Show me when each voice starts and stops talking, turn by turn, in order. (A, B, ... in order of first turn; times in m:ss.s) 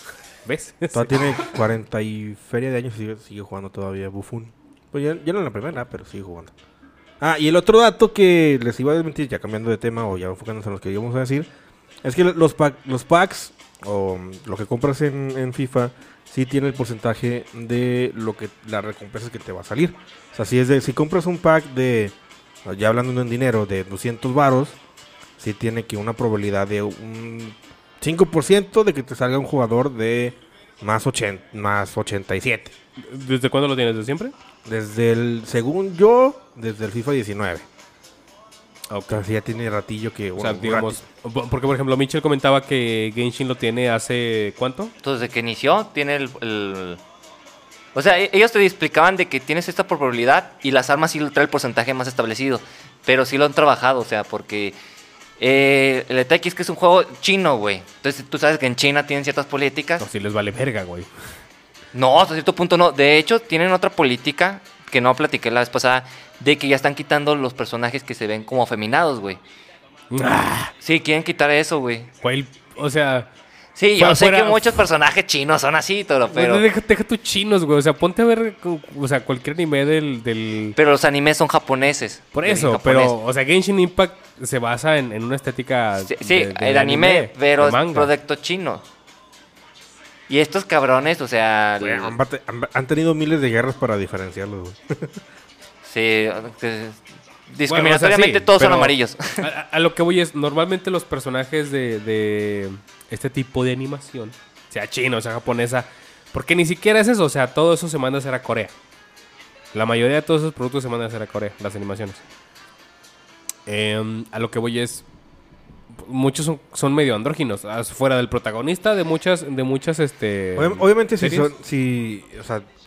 0:00.4-0:01.1 A
0:00.9-0:06.5 B
0:07.2-0:11.5 B
0:12.0-0:24.8 B
0:25.4-0:32.7 B
0:33.0-0:34.3 A
0:34.6-0:37.7 B
0:38.9-0:39.2 A
0:39.1-0:41.0 B
0:40.4-0:44.9 A
0:45.0-0:47.0 C
0:47.9-0:54.8 C
0:55.4-1:00.1 C
1:00.0-1:01.1 A
1:01.9-1:09.4 C
1:10.1-1:10.7 A
1:10.8-1:12.1 C
1:12.2-1:13.3 A
1:13.8-1:16.6 C
1:14.0-1:14.8 A
1:16.3-1:20.8 A
1:20.8-1:23.1 C
1:22.3-1:28.1 A
1:26.1-1:28.8 C
1:30.3-1:32.2 C
1:31.8-1:35.2 B
1:35.8-1:39.4 C
1:37.7-1:48.7 A
1:49.7-1:52.2 A
1:53.6-1:55.0 A
1:56.0-2:01.5 A
2:00.6-2:02.6 B